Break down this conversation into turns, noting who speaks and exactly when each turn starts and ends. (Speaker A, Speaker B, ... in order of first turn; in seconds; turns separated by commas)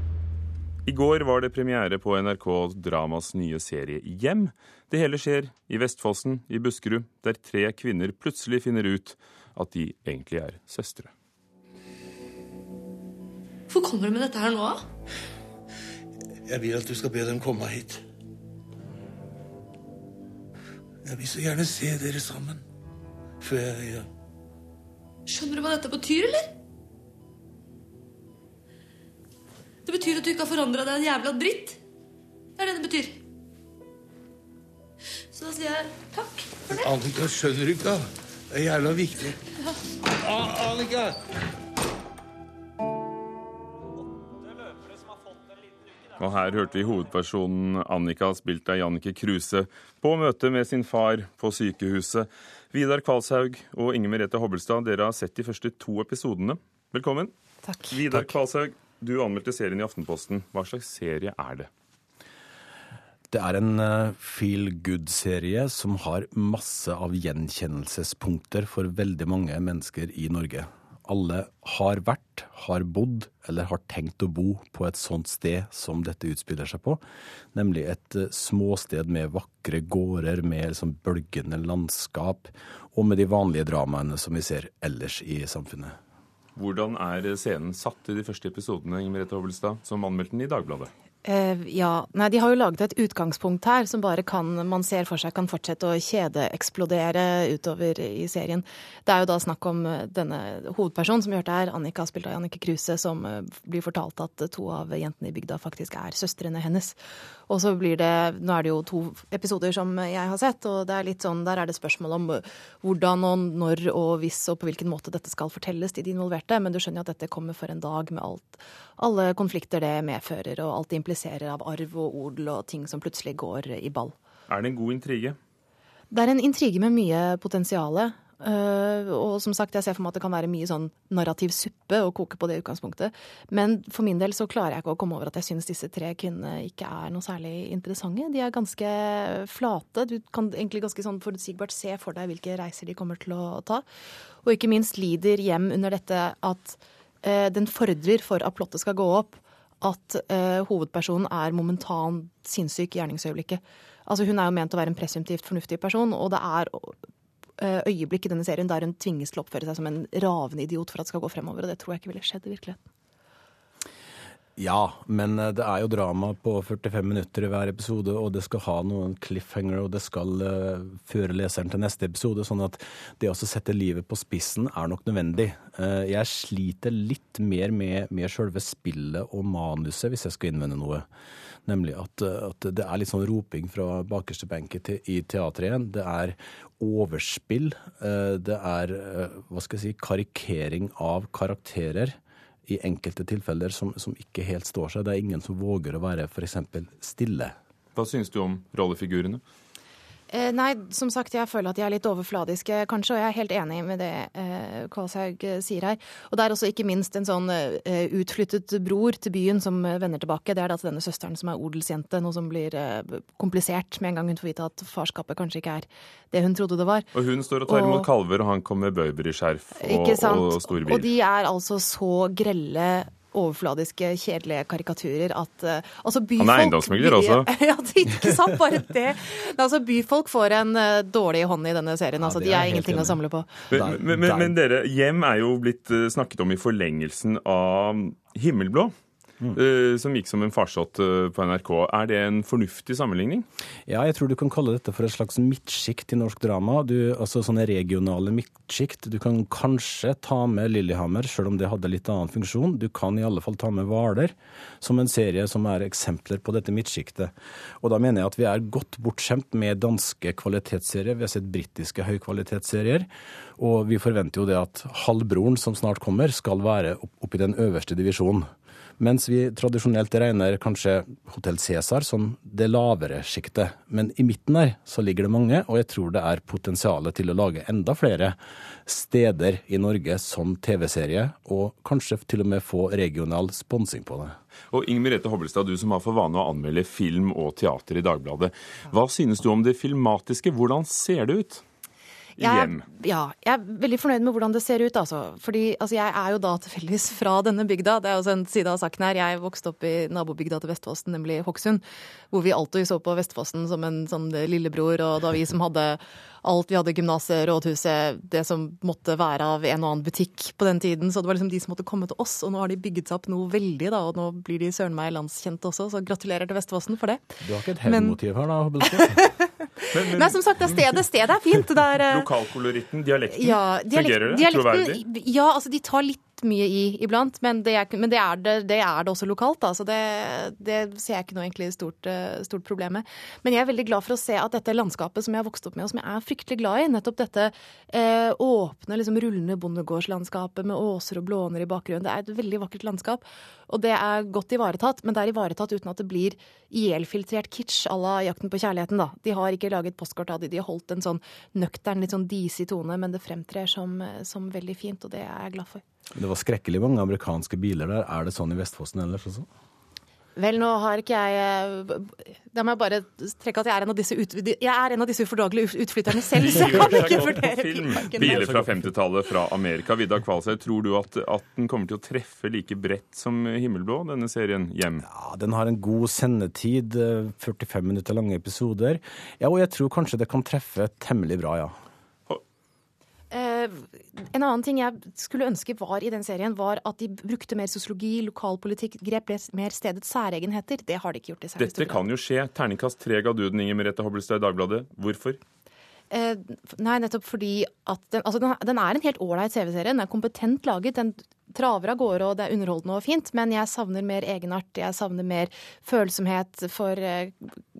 Speaker A: 0.8-11.1, Speaker B: 16.4-18.0, Speaker B: 21.0-22.6, Speaker B: 23.4-24.1, Speaker C: 25.3-26.4, Speaker C: 29.9-31.7, Speaker C: 32.7-33.0, Speaker B: 36.7-39.4, Speaker B: 40.2-41.1, Speaker A: 46.2-57.3, Speaker A: 57.9-61.7, Speaker D: 63.3-77.0, Speaker D: 77.5-86.0, Speaker A: 86.5-90.9, Speaker E: 91.2-124.1, Speaker A: 124.5-125.4, Speaker E: 126.1-143.8, Speaker E: 144.4-157.0, Speaker E: 157.6-162.9, Speaker D: 164.6-181.1, Speaker D: 181.7-197.6, Speaker A: 197.9-199.4, Speaker E: 200.3-217.1, Speaker A: 217.1-221.1, Speaker E: 217.7-218.1, Speaker E: 219.8-233.6, Speaker A: 226.4-227.5, Speaker D: 232.2-233.2, Speaker D: 233.7-234.5, Speaker A: 233.7-238.9, Speaker A: 239.5-243.4, Speaker D: 243.8-268.5, Speaker D: 269.0-284.4, Speaker A: 284.7-291.6, Speaker A: 292.4-292.8, Speaker E: 292.4-318.2, Speaker D: 317.4-319.2, Speaker E: 318.8-322.3, Speaker A: 319.9-320.4, Speaker A: 322.1-325.0, Speaker E: 323.3-355.8, Speaker D: 356.1-359.5, Speaker E: 360.4-368.5, Speaker A: 366.3-375.0, Speaker D: 368.2-368.8, Speaker D: 375.0-381.8, Speaker E: 383.3-392.1, Speaker A: 391.6-395.4, Speaker E: 396.1-407.6